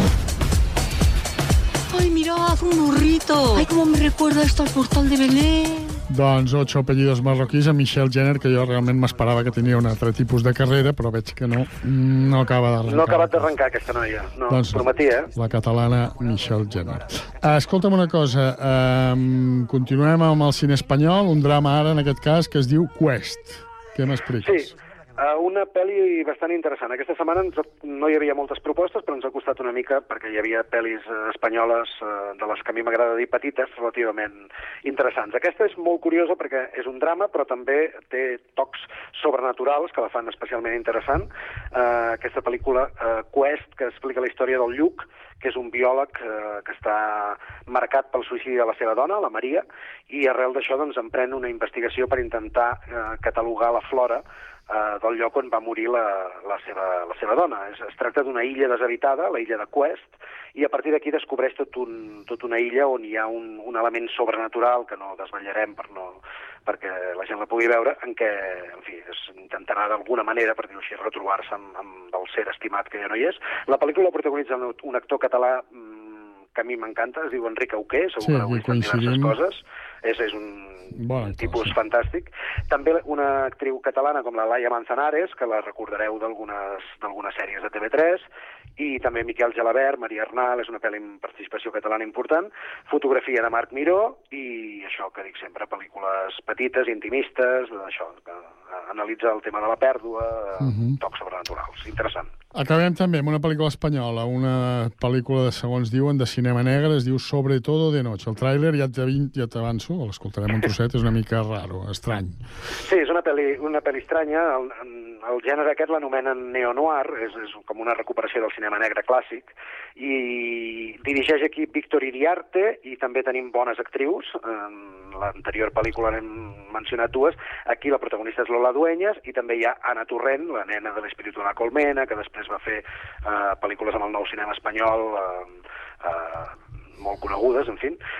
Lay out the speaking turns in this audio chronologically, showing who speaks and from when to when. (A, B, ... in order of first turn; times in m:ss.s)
0:01.9-0:06.0 A
0:06.1-0:13.5 B
0:12.8-0:15.3 C
0:14.5-0:24.7 B
0:24.4-1:28.3 C
1:18.2-1:19.3 B
1:20.9-1:21.7 B
1:28.8-1:42.3 C
1:40.6-1:41.0 B
1:42.5-1:52.4 B
1:52.8-2:18.0 C